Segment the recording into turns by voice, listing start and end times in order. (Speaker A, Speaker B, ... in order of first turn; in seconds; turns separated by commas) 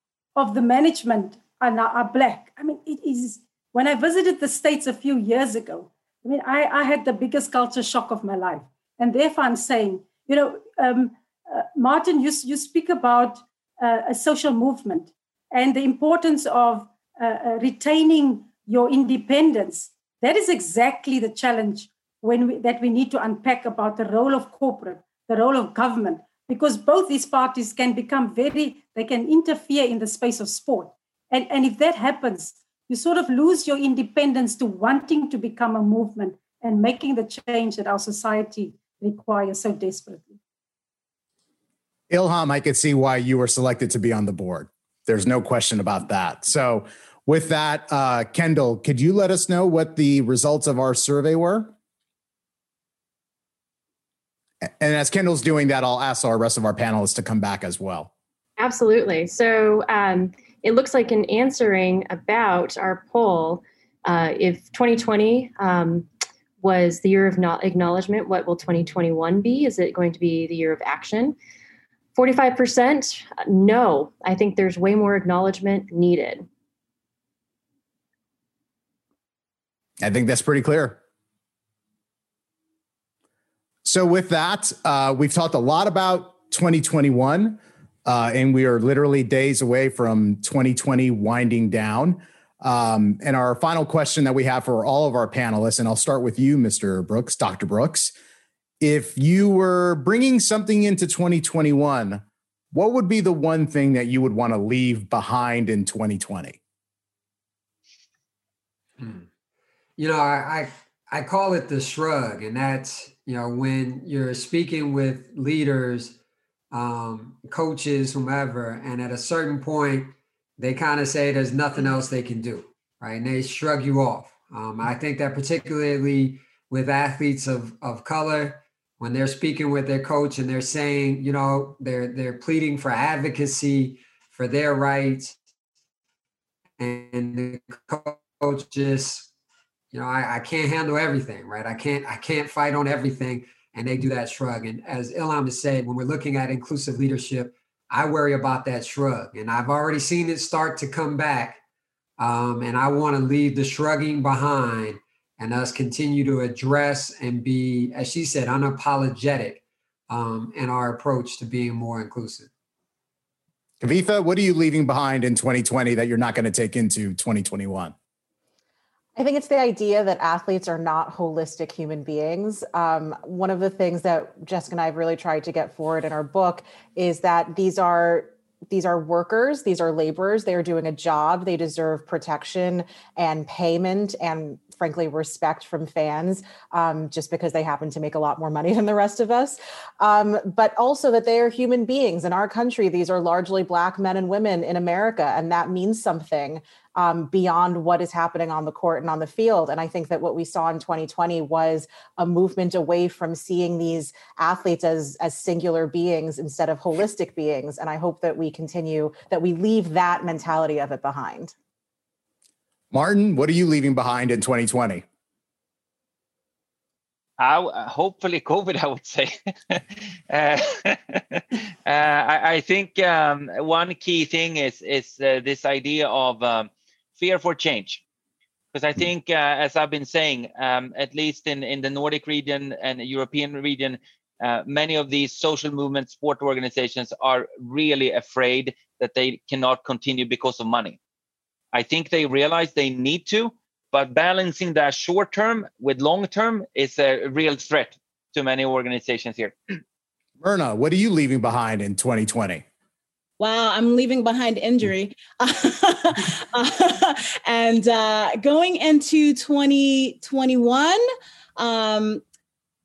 Speaker A: 0.3-40.4, Speaker B: 42.1-51.7, Speaker B: 54.8-58.1, Speaker C: 58.6-66.1, Speaker C: 66.6-71.4, Speaker C: 72.2-76.5, Speaker B: 80.0-81.0, Speaker B: 83.8-98.1, Speaker B: 98.8-106.6, Speaker D: 109.0-109.3, Speaker D: 110.0-116.2, Speaker D: 116.7-135.4, Speaker D: 136.8-139.3, Speaker D: 139.9-151.6, Speaker D: 152.2-162.5, Speaker B: 163.8-167.9, Speaker E: 169.2-211.5, Speaker B: 212.9-215.0, Speaker F: 217.4-228.0, Speaker F: 228.7-241.0, Speaker F: 241.7-249.5, Speaker B: 250.4-252.6, Speaker G: 253.4-261.0, Speaker G: 261.6-262.2